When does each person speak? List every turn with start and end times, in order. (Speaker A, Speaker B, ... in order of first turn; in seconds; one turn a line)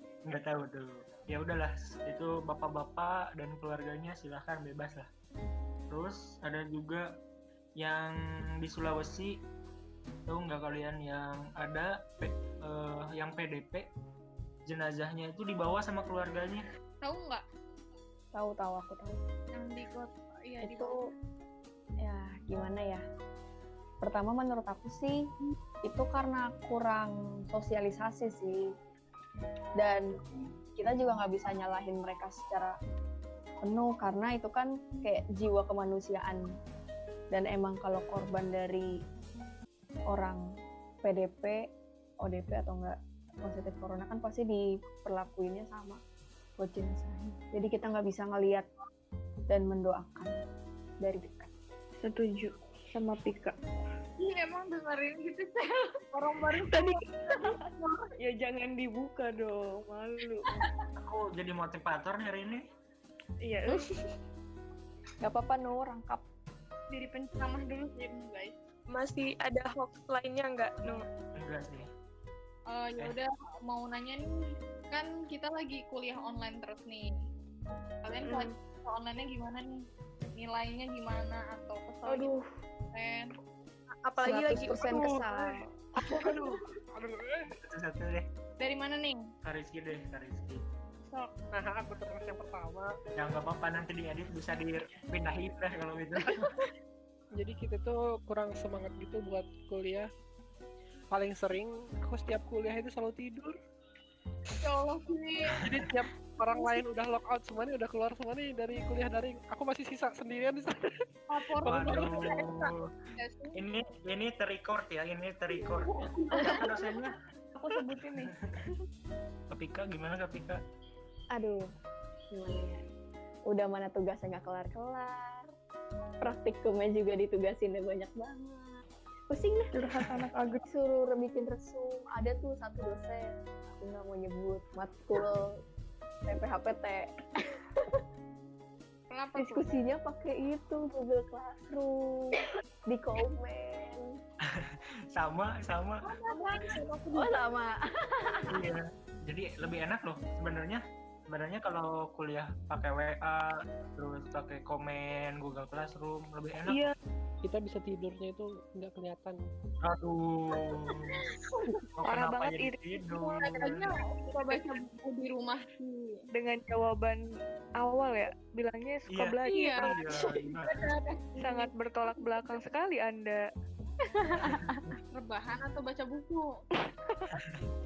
Speaker A: 0.2-5.1
Speaker A: 5.9-7.1
Speaker A: 7.8-9.4
Speaker A: 10.3-13.9
Speaker A: 14.7-16.6
Speaker B: 17.0-17.4
Speaker C: 18.3-19.2
Speaker B: 19.5-21.0
Speaker C: 20.6-20.9
Speaker C: 22.0-23.0
Speaker C: 24.0-25.3
Speaker C: 25.8-28.7
Speaker C: 29.8-30.1
Speaker C: 30.8-32.8
Speaker C: 33.6-36.5
Speaker C: 37.3-38.9
Speaker C: 40.1-40.4
Speaker C: 41.0-41.6
Speaker C: 42.2-46.0
Speaker C: 46.6-48.7
Speaker C: 49.5-50.4
Speaker C: 51.0-51.5
Speaker D: 52.0-53.5
Speaker B: 54.2-58.1
Speaker D: 56.6-60.5
Speaker A: 61.0-62.7
Speaker D: 63.4-64.0
Speaker C: 65.2-66.2
Speaker B: 66.9-68.5
Speaker E: 68.9-71.0
Speaker A: 71.3-71.9
Speaker B: 72.7-77.1
Speaker B: 78.0-82.3
Speaker D: 82.1-82.4
Speaker B: 82.9-83.3
Speaker E: 84.0-85.5
Speaker C: 84.2-85.5
Speaker E: 86.1-86.5
Speaker F: 87.0-87.5
Speaker A: 87.6-88.3
Speaker B: 88.6-89.3
Speaker A: 89.4-90.7
Speaker F: 91.5-92.9
Speaker A: 93.2-96.5
Speaker F: 97.4-100.1
Speaker F: 101.1-103.6
Speaker B: 104.6-105.6
Speaker F: 105.6-111.0
Speaker B: 111.3-113.6
Speaker F: 111.6-112.1
Speaker A: 111.7-112.9
Speaker A: 113.5-117.2
Speaker B: 115.6-116.8
Speaker D: 117.5-118.4
Speaker A: 119.5-120.6
Speaker C: 121.3-121.7
Speaker C: 122.3-122.8
Speaker C: 123.5-125.5
Speaker C: 126.2-129.7
Speaker D: 129.7-130.7
Speaker C: 130.7-135.6
Speaker C: 136.3-138.0
Speaker B: 139.1-139.7
Speaker C: 139.4-144.1
Speaker A: 144.4-146.1
Speaker B: 146.0-147.3
Speaker C: 147.1-148.5
Speaker A: 148.5-156.9
Speaker D: 156.7-156.9
Speaker F: 157.4-159.4
Speaker A: 159.8-161.2
Speaker B: 160.8-161.9
Speaker A: 162.0-163.9
Speaker D: 162.1-162.8
Speaker B: 163.1-166.3
Speaker D: 166.3-167.2
Speaker D: 167.8-170.1
Speaker A: 169.1-170.9
Speaker B: 169.4-172.4
Speaker D: 171.4-173.4
Speaker A: 174.4-175.0
Speaker B: 175.1-176.5
Speaker D: 176.9-177.3
Speaker A: 177.3-177.7